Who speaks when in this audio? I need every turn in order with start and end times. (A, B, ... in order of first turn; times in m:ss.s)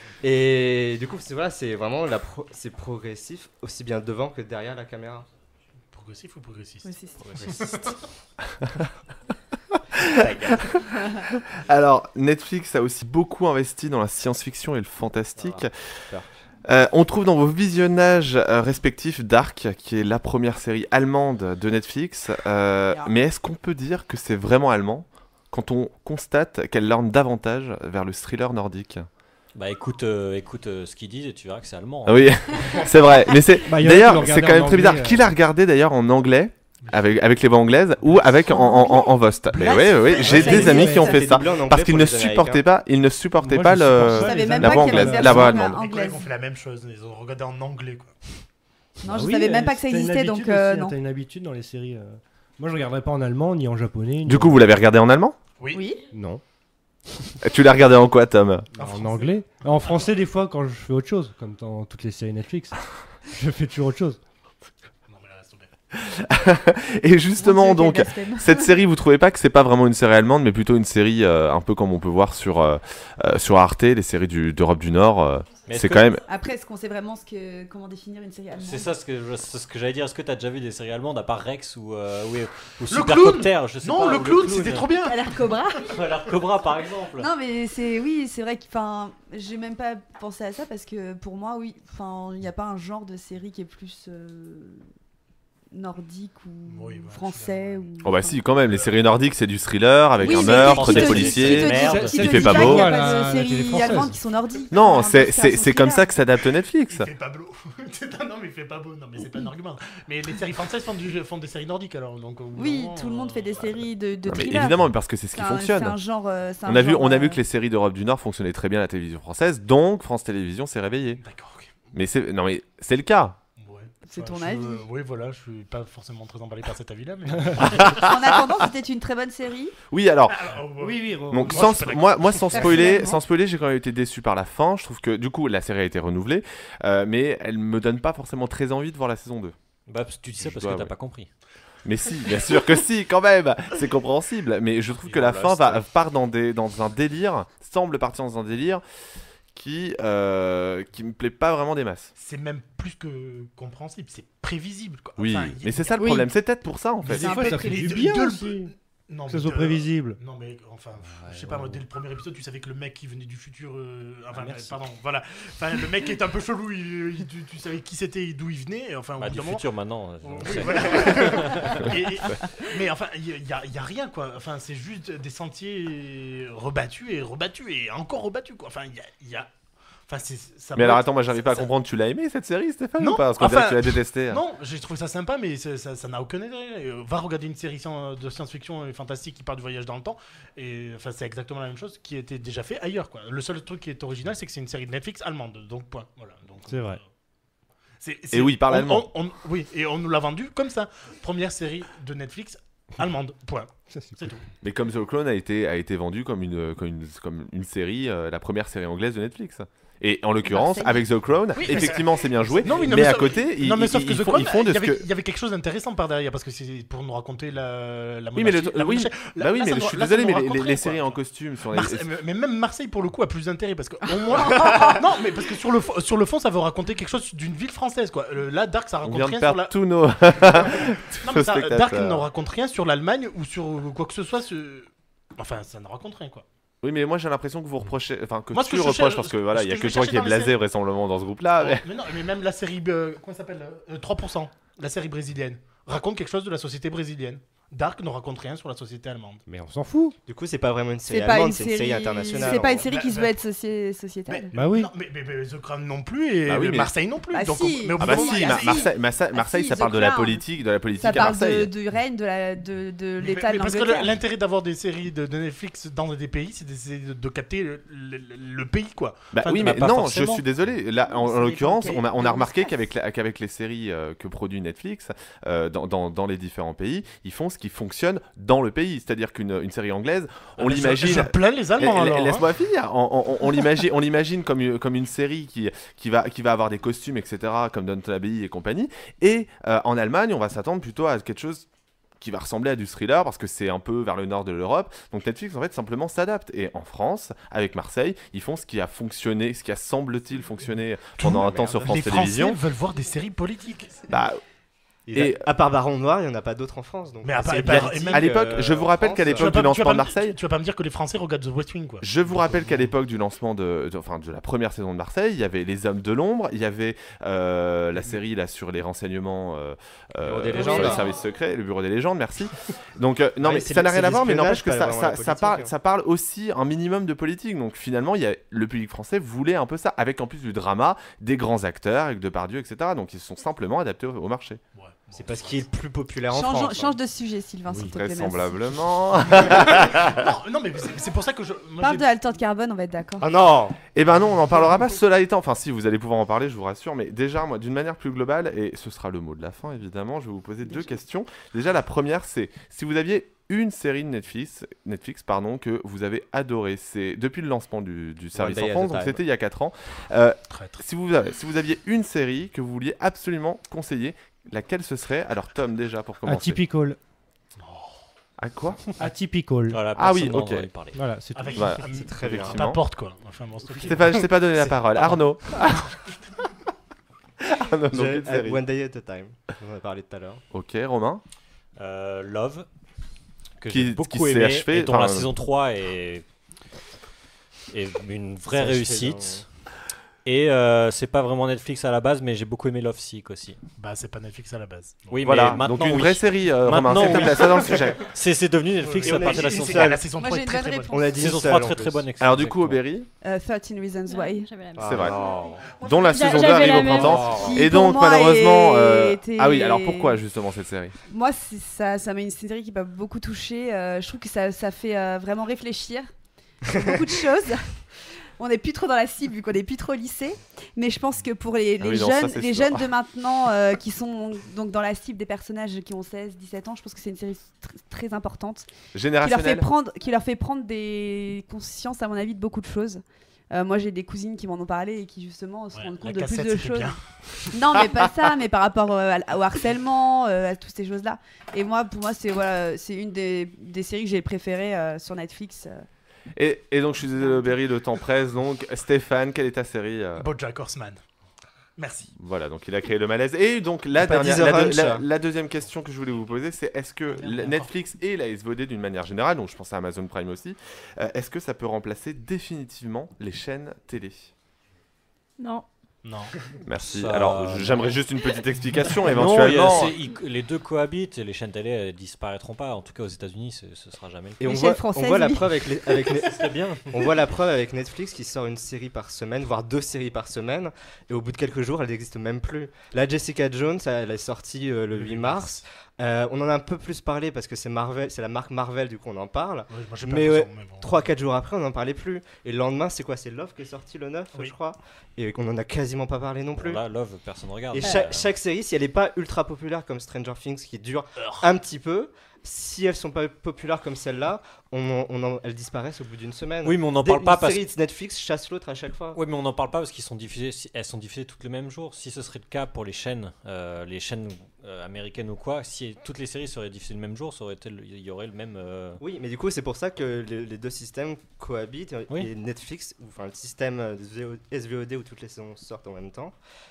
0:00.2-0:05.2 A
0:05.9-0:06.9 B
0:06.8-0:07.4 C
0:07.4-0:08.0 A
0:07.4-0:07.9 B
0:10.1-0:10.4 D
0:10.2-0:10.8 A
0:11.6-0:15.7 D
0:15.4-0:16.3 A
0:16.6-0:29.1 D
0:29.5-0:32.6 E
0:32.0-0:45.8 D
0:33.6-0:35.3 F
0:36.8-0:37.2 B
0:38.4-0:41.2 C
0:40.2-0:42.6 A
0:40.6-0:41.2 F
0:43.4-0:45.7 F
0:44.1-0:46.3 C
0:45.8-0:48.4 B
0:49.0-0:51.0 C
0:49.1-0:54.7 F
0:54.2-0:55.4 D
0:55.6-0:55.9 B
0:55.7-0:56.0 C
0:56.1-0:56.4 F
0:57.4-0:58.7 D
0:58.8-1:00.1 B
0:58.8-1:04.2 F
1:05.1-1:05.7 B
1:06.1-1:16.2 D
1:07.4-1:08.8 C
1:15.6-1:16.1 E
1:16.3-1:18.9 C
1:18.6-1:24.9 E
1:22.9-1:25.2 B
1:25.0-1:26.0 C
1:25.9-1:27.3 E
1:27.2-1:34.8 C
1:35.7-1:38.4 C
1:36.6-1:38.0 B
1:38.0-1:42.9 D
1:38.6-1:39.0 B
1:40.2-1:46.1 C
1:40.2-1:42.6 E
1:40.8-1:44.2 F
1:44.7-1:47.1 D
1:46.9-1:53.8 B
1:52.5-1:57.4 C
1:54.2-1:56.0 D
1:56.6-2:01.2 D
2:01.2-2:01.9 B
2:01.9-2:03.4 D
2:03.6-2:08.0 B
2:04.0-2:04.8 C
2:07.9-2:09.7 C
2:09.9-2:10.4 D
2:10.3-2:13.0 B
2:10.8-2:11.7 F
2:11.3-2:19.5 D
2:12.5-2:13.2 C
2:19.9-2:21.3 E
2:20.4-2:20.9 D
2:21.8-2:28.8 D
2:25.0-2:25.8 E
2:29.5-2:32.1 D
2:32.2-2:36.0 B
2:35.2-2:37.4 D
2:35.9-2:36.3 C
2:37.0-2:38.7 F
2:37.2-2:37.9 C
2:37.5-2:49.7 B
2:39.3-2:40.2 F
2:41.1-2:41.8 E
2:44.3-2:44.8 F
2:49.2-2:52.1 E
2:50.2-2:59.5 B
3:00.1-3:01.7 B
3:00.7-3:04.4 D
3:03.0-3:17.0 B
3:16.6-3:17.0 F
3:18.0-3:24.4 B
3:18.3-3:19.1 D
3:23.9-3:24.2 F
3:24.6-3:35.0 D
3:30.4-3:31.0 C
3:31.6-3:41.2 B
3:38.3-3:42.1 D
3:41.7-3:49.7 B
3:49.0-3:52.2 D
3:51.2-3:56.4 B
3:56.8-4:01.8 D
3:58.5-4:00.5 B
4:01.6-4:09.4 B
4:09.5-4:10.2 F
4:10.3-4:12.8 A
4:11.0-4:14.6 C
4:12.5-4:13.3 B
4:14.3-4:18.9 B
4:14.5-4:14.9 F
4:16.5-4:16.9 D
4:17.3-4:20.4 C
4:18.0-4:21.7 D
4:21.0-4:24.2 C
4:23.2-4:30.4 B
4:29.3-4:51.6 D
4:31.4-4:32.1 B
4:31.5-4:32.8 C
4:40.6-4:42.5 B
4:52.2-5:02.6 D
5:01.2-5:04.0 B
5:01.4-5:02.0 A
5:04.1-5:04.4 D
5:05.1-5:09.5 A
5:05.1-5:05.4 D
5:07.2-5:08.3 B
5:07.6-5:10.4 D
5:09.3-5:12.9 B
5:12.0-5:34.6 D
5:18.0-5:18.2 A
5:20.2-5:21.1 A
5:20.6-5:20.9 B
5:23.4-5:25.7 A
5:34.7-5:35.6 B
5:35.1-5:37.0 A
5:36.3-5:38.7 C
5:37.8-5:40.1 D
5:40.1-5:42.1 B
5:41.8-5:43.3 C
5:43.2-5:43.8 A
5:43.9-6:06.6 D
5:44.5-5:44.9 B
5:58.3-5:59.2 A
6:00.5-6:00.8 B
6:06.2-6:07.0 F
6:07.6-6:08.0 B
6:08.4-6:08.9 D
6:09.0-6:09.8 F
6:09.7-6:11.0 E
6:09.9-6:10.7 D
6:10.9-6:11.8 F
6:11.3-6:14.0 B
6:11.6-6:12.8 D
6:11.8-6:12.7 A
6:13.5-6:15.2 A
6:13.9-6:15.9 D
6:17.4-6:18.6 D
6:17.9-6:20.4 A
6:20.5-6:21.2 D
6:21.8-6:22.6 E
6:23.6-6:26.2 E
6:23.7-6:25.3 D
6:27.7-6:29.5 E
6:28.5-6:29.4 A
6:30.2-6:33.6 E
6:33.8-6:35.4 B
6:35.1-6:39.9 E
6:35.2-6:38.0 D
6:38.8-6:41.0 B
6:39.0-6:40.1 A
6:40.1-6:41.2 C
6:40.9-6:42.1 A
6:41.2-6:42.8 E
6:42.2-6:43.1 D
6:43.2-6:44.5 C
6:44.0-6:45.3 G
6:44.7-6:45.6 A
6:44.8-6:45.2 D
6:45.7-6:50.2 C
6:45.8-6:50.9 D
6:46.0-6:47.3 G
6:47.0-6:47.5 A
6:51.1-6:56.1 C
6:56.6-6:57.6 C
6:58.4-7:08.7 C
7:01.8-7:02.8 D
7:08.9-7:09.7 D
7:09.2-7:17.0 C
7:15.7-7:17.8 B
7:17.5-7:25.8 C
7:26.4-7:30.3 D
7:27.2-7:27.5 C
7:30.2-7:31.0 B
7:31.8-7:32.1 B
7:32.2-7:44.3 D
7:34.0-7:35.0 A
7:37.1-7:37.7 B
7:45.4-7:45.6 G
7:46.0-7:46.3 B
7:46.6-7:50.0 D
7:46.8-7:48.0 E
7:49.0-7:54.4 E
7:54.4-8:16.8 A
7:54.4-7:56.0 C
7:56.1-7:57.1 E
8:04.9-8:05.6 B
8:09.7-8:11.0 B
8:16.5-8:18.3 E
8:17.7-8:29.2 A
8:26.6-8:27.6 E
8:29.1-8:39.0 E
8:39.0-8:46.4 A